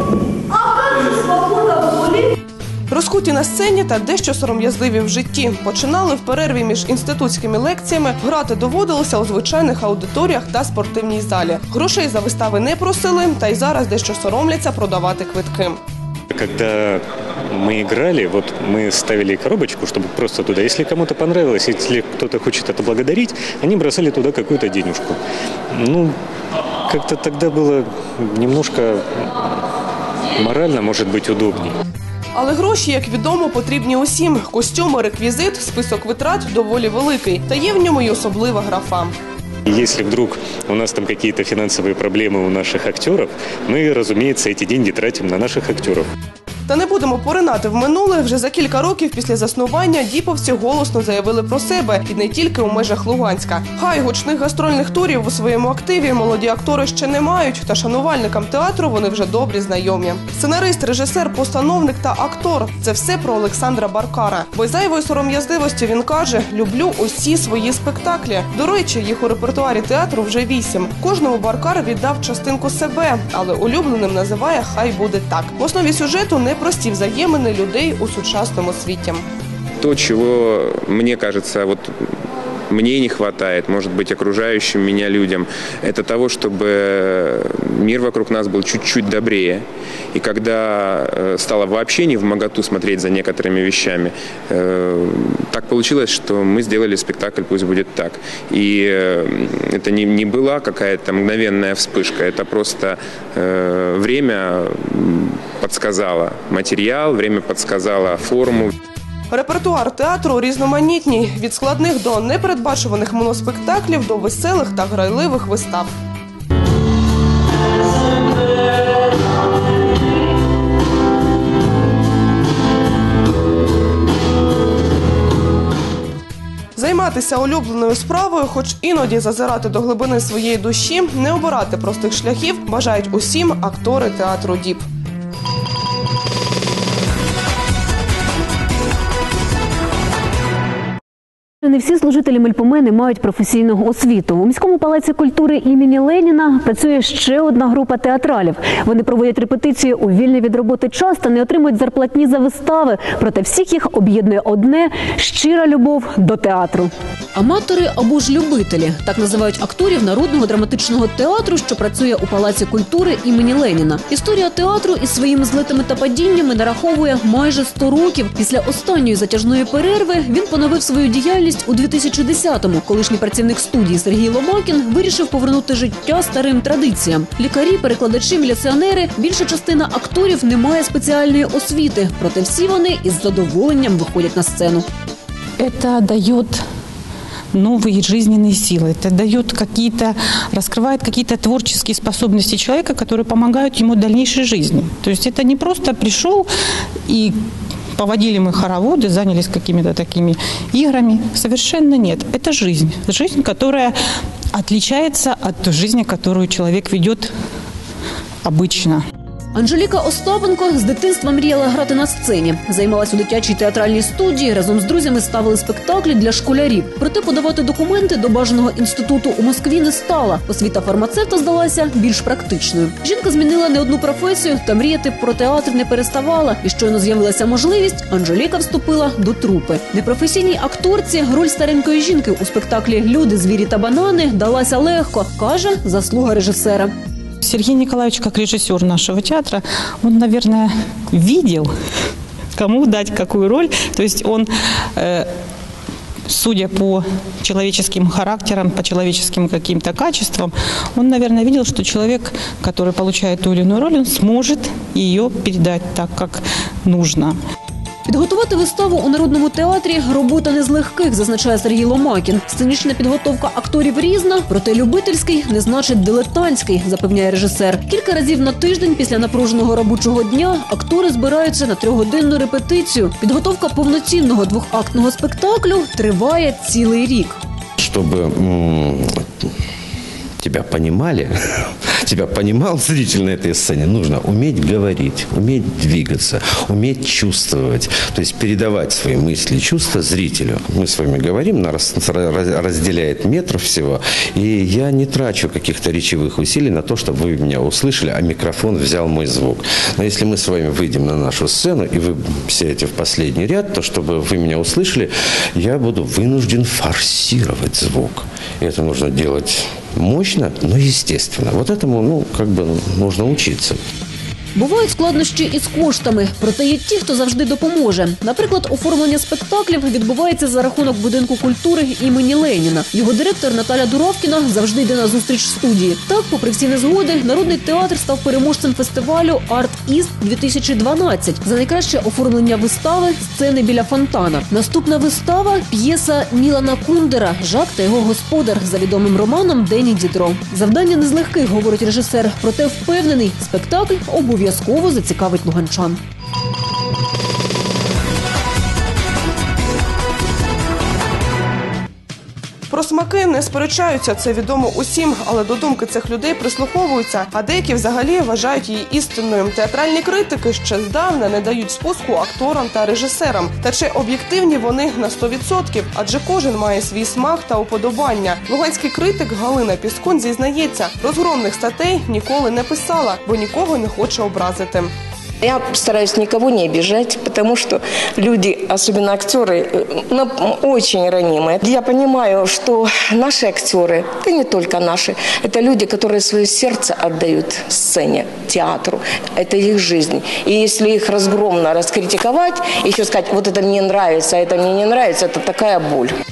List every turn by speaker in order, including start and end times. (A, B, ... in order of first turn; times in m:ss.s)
0:02.9-0:15.8 A
0:16.3-0:25.2 B
0:25.7-0:26.2 B
0:26.9-0:29.0 B
0:30.4-0:31.8 B
0:32.4-0:39.2 A
0:39.7-0:46.1 B
0:46.7-1:19.2 A
1:19.8-1:21.9 C
1:22.7-1:48.7 C
1:49.3-1:55.9 A
2:06.8-2:14.8 A
2:21.6-3:04.9 D
3:05.6-3:06.6 E
3:07.5-3:16.5 E
3:17.1-3:17.4 E
3:18.0-3:23.9 E
3:24.6-3:27.3 E
3:28.5-3:29.0 E
3:29.6-3:56.9 D
3:57.4-4:01.7 E
4:02.6-4:05.3 E
4:06.3-4:17.3 E
4:18.1-4:37.4 D
4:37.8-4:39.1 F
4:40.4-5:13.8 F
5:14.6-5:46.0 D
5:52.7-6:14.9 A
6:15.4-6:36.1 G